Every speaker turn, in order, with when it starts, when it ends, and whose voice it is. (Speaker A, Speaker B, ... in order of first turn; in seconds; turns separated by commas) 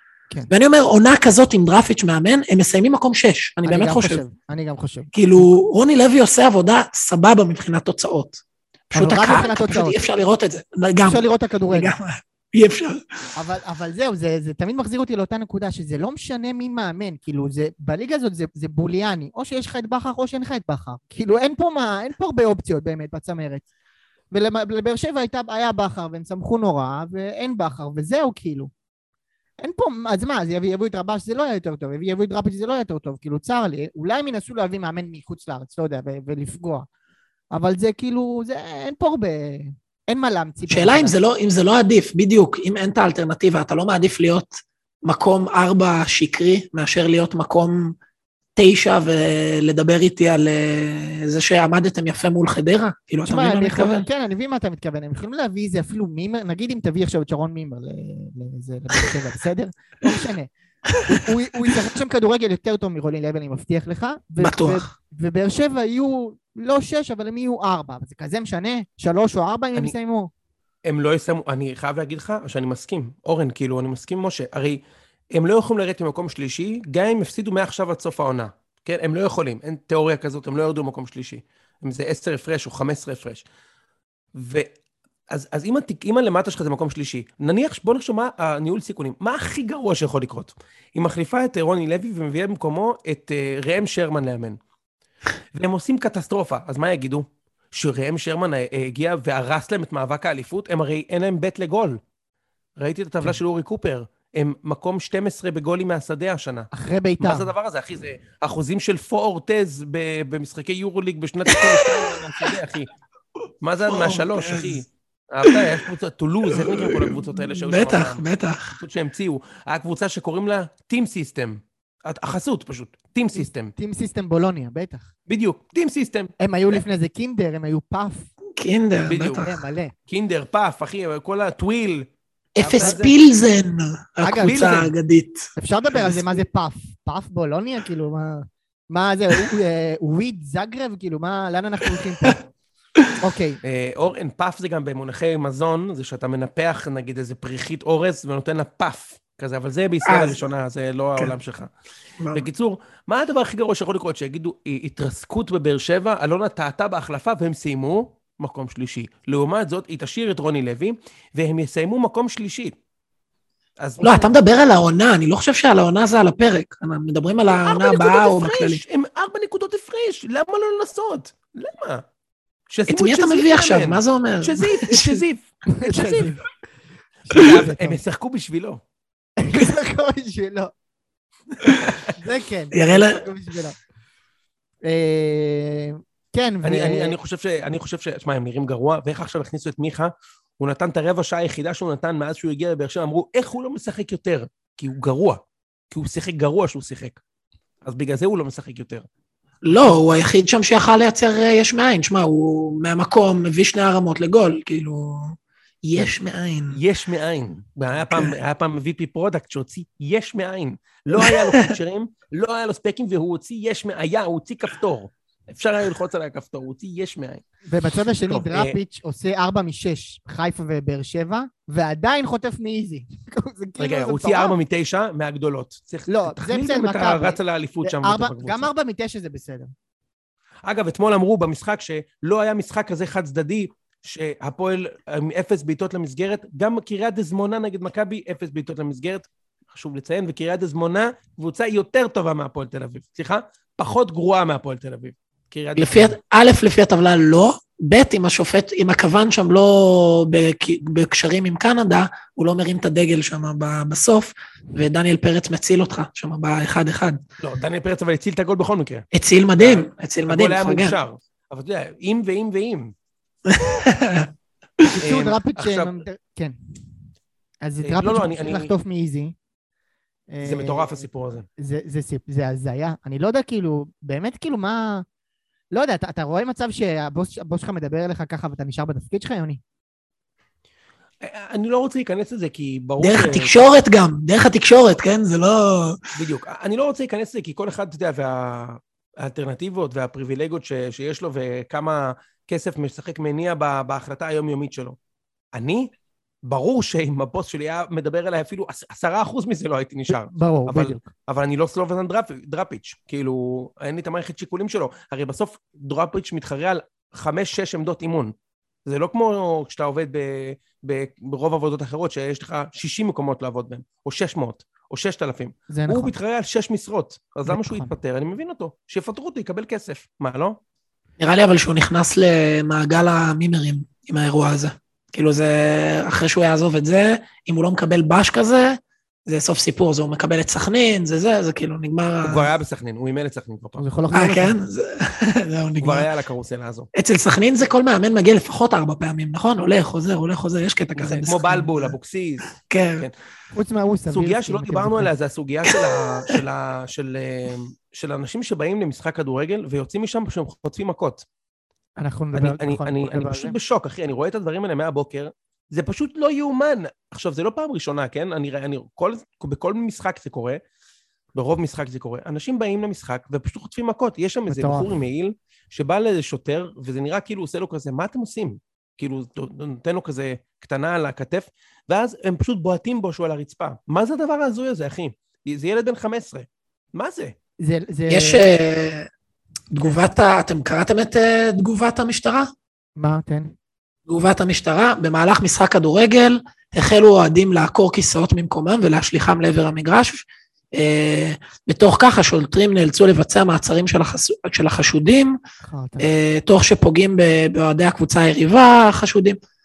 Speaker A: 0.5-4.2, Speaker B: 3.6-5.5, Speaker A: 5.1-13.2, Speaker B: 8.9-10.0, Speaker B: 11.1-11.9, Speaker B: 13.3-23.7, Speaker B: 24.3-28.7, Speaker B: 29.6-36.9, Speaker B: 37.5-41.1, Speaker A: 40.7-48.0, Speaker A: 48.5-54.1, Speaker B: 53.3-60.5, Speaker B: 61.0-70.3, Speaker A: 64.4-64.9, Speaker C: 70.8-74.8, Speaker C: 75.3-83.4, Speaker C: 84.3-84.7, Speaker C: 85.3-94.6, Speaker C: 95.5-102.0, Speaker C: 102.8-106.7, Speaker B: 106.7-107.5, Speaker C: 107.2-112.9, Speaker A: 111.5-112.2, Speaker C: 113.6-123.7, Speaker A: 113.8-114.8, Speaker A: 116.5-118.8, Speaker B: 123.4-125.1, Speaker C: 125.3-126.3, Speaker B: 126.4-128.3, Speaker A: 128.6-129.6, Speaker C: 129.1-129.4, Speaker B: 129.4-129.9, Speaker C: 130.1-133.2, Speaker A: 132.6-136.2, Speaker B: 132.7-133.1, Speaker B: 134.2-134.8, Speaker C: 134.4-134.9, Speaker B: 135.6-142.4, Speaker A: 141.9-142.4, Speaker B: 143.2-143.6, Speaker C: 143.6-151.7, Speaker A: 150.0-150.4, Speaker A: 152.2-152.5, Speaker C: 152.3-162.8, Speaker C: 163.8-164.3, Speaker A: 164.0-168.8, Speaker C: 167.6-172.0, Speaker C: 172.7-176.3, Speaker A: 172.9-175.2, Speaker B: 175.7-176.4, Speaker C: 177.3-178.8, Speaker B: 177.3-178.0, Speaker B: 179.4-180.7, Speaker B: 182.1-183.8, Speaker A: 182.7-183.2, Speaker B: 184.8-187.1, Speaker C: 186.6-195.4, Speaker C: 195.9-197.2, Speaker C: 197.8-199.1, Speaker A: 199.6-206.8, Speaker C: 206.7-217.4, Speaker A: 208.0-208.3, Speaker A: 211.2-211.7, Speaker B: 217.7-224.5, Speaker C: 218.3-218.8, Speaker C: 223.8-228.7, Speaker B: 226.1-229.7, Speaker C: 230.7-246.1, Speaker A: 245.8-257.2, Speaker C: 257.4-259.1, Speaker A: 259.1-261.0, Speaker C: 259.6-262.9, Speaker A: 263.4-264.3, Speaker B: 264.9-266.6, Speaker C: 265.0-266.0, Speaker B: 267.6-269.3, Speaker C: 267.8-268.7, Speaker B: 270.3-275.0, Speaker C: 270.4-271.4, Speaker B: 275.7-279.6, Speaker C: 281.2-283.6, Speaker A: 283.0-286.0, Speaker C: 286.1-294.9, Speaker C: 295.5-295.9, Speaker C: 296.4-308.3, Speaker B: 300.1-301.1, Speaker C: 308.9-320.6, Speaker B: 315.7-316.1, Speaker B: 317.4-317.9, Speaker A: 321.2-332.5, Speaker C: 332.2-333.8, Speaker B: 333.8-334.6, Speaker A: 334.1-336.1, Speaker C: 335.8-336.9, Speaker A: 336.9-341.9, Speaker C: 341.0-343.1, Speaker A: 342.5-343.1, Speaker B: 343.5-345.1, Speaker C: 344.1-351.2, Speaker A: 345.6-346.4, Speaker B: 352.0-353.6, Speaker C: 352.3-360.6, Speaker C: 361.3-377.3, Speaker B: 364.5-364.9, Speaker B: 377.6-378.4, Speaker A: 378.1-379.1, Speaker A: 379.7-382.5, Speaker B: 383.0-383.5, Speaker A: 384.1-395.4, Speaker B: 395.6-396.1, Speaker A: 396.0-399.4